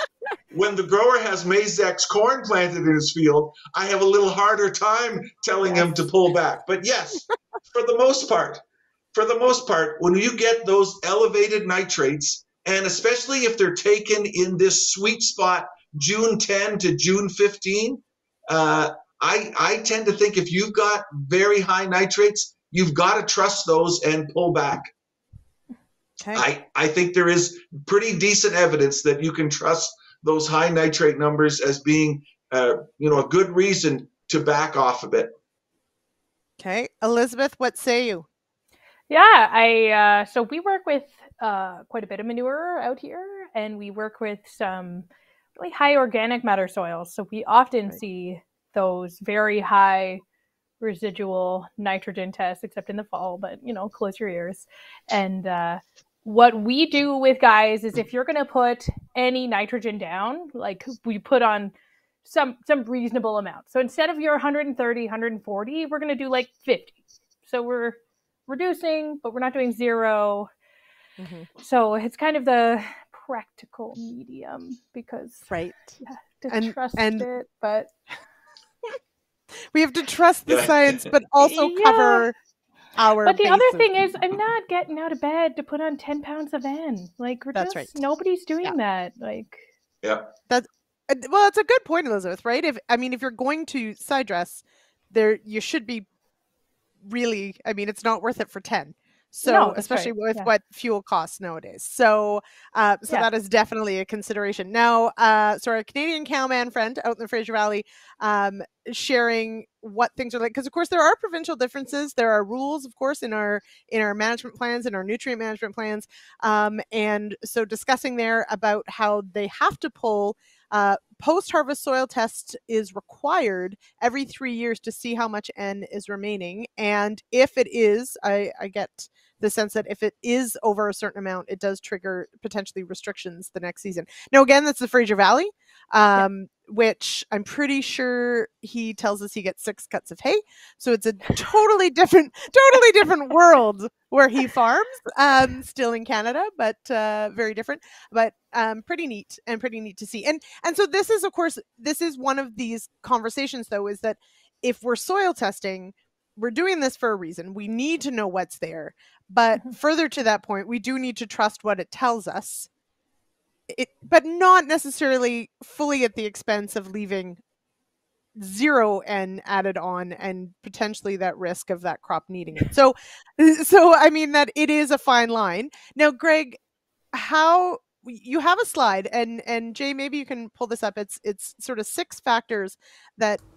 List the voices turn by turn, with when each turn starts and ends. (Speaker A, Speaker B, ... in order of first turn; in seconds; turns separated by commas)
Speaker A: 0.5-8.6, Speaker B: 5.6-6.0, Speaker A: 9.1-24.9, Speaker A: 26.3-35.3, Speaker B: 36.6-38.3, Speaker C: 39.1-50.2, Speaker C: 50.8-61.7, Speaker C: 62.2-70.5, Speaker B: 71.2-71.5, Speaker C: 71.6-77.9, Speaker B: 75.5-76.0, Speaker B: 76.5-77.3, Speaker B: 79.7-82.3, Speaker A: 80.5-81.1, Speaker C: 81.4-82.3, Speaker B: 83.0-83.9, Speaker C: 83.2-89.7, Speaker B: 87.5-87.9, Speaker A: 90.0-90.3, Speaker B: 90.5-96.1, Speaker B: 97.0-162.7, Speaker C: 99.4-100.5, Speaker B: 163.7-167.4, Speaker B: 168.3-176.6, Speaker B: 177.1-183.4